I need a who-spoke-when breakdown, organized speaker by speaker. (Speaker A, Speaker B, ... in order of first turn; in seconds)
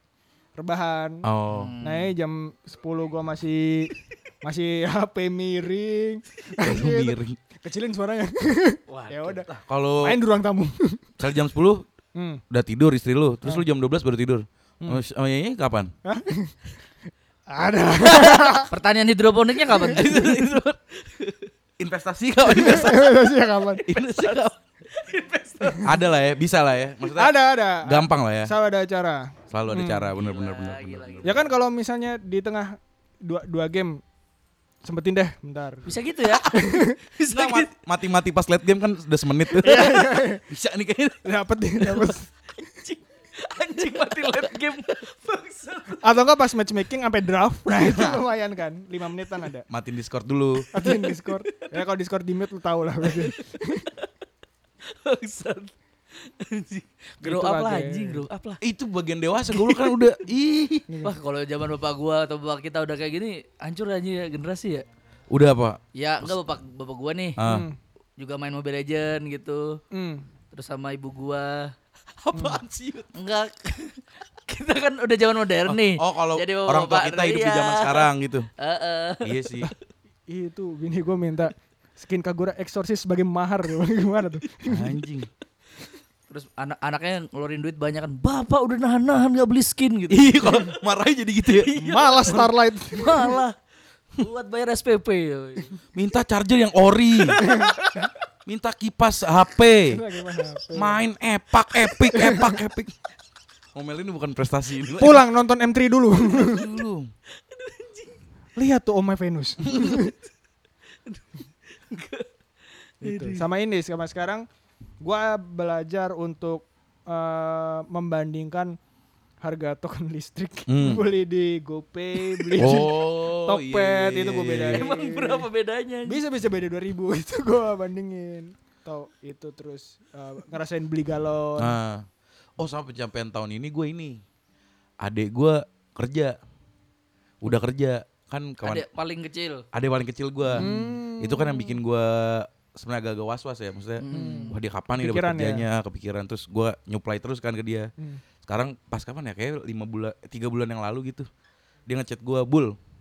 Speaker A: 0.6-1.3, 1.8-9.5, 10.0-11.0, 12.1-12.4, 16.0-16.5, 17.5-18.7, 22.4-23.8, 27.1-30.1, 31.2-34.0, 34.8-35.9, 36.4-37.0, 39.6-40.4, 41.2-42.3, 46.0-49.7, 50.7-53.9, 57.2-58.2, 60.9-61.1, 67.4-67.8, 69.9-70.2, 72.3-72.6, 80.3-85.0, 91.8-93.4, 97.4-97.7, 99.9-101.0, 102.0-102.6, 105.0-106.8, 108.5-110.1, 113.0-114.5, 115.0-118.8, 119.4-125.5, 126.0-131.8, 140.5-141.8, 144.1-145.6
Speaker B: 1.2-1.7, 6.6-7.4, 9.5-10.2, 11.2-11.8, 12.5-15.9, 19.9-20.8, 21.8-23.1, 23.9-24.5, 25.8-28.5, 29.5-31.5, 37.3-41.2, 47.8-48.2, 49.7-50.7, 58.6-60.9, 65.3-66.3, 67.4-67.7, 72.2-73.1, 75.7-78.5, 79.2-79.7, 84.7-85.3, 90.1-91.7, 95.9-97.4, 98.5-100.0, 100.7-102.9, 103.7-105.2, 106.3-107.1, 120.7-121.0, 122.6-124.9, 131.6-132.0, 132.6-134.2, 135.0-136.3, 137.4-138.8, 139.7-147.9, 148.4-151.3, 151.9-152.8
Speaker C: 1.5-2.1, 8.9-9.5, 18.0-20.5, 22.6-22.8, 23.7-25.9, 30.1-31.5, 35.9-37.7, 42.6-46.0, 50.7-51.8, 53.0-53.4, 54.9-58.6, 59.5-60.0, 61.0-64.8, 65.9-67.4, 68.2-69.8, 70.5-71.7, 73.1-79.7, 86.3-90.6, 91.6-93.6, 94.2-95.8, 97.2-98.1, 107.5-108.1, 109.7-110.1, 111.0-112.3, 113.0-113.5, 122.2-122.8, 124.7-126.2, 138.6-139.7, 140.5-140.9, 144.0-144.6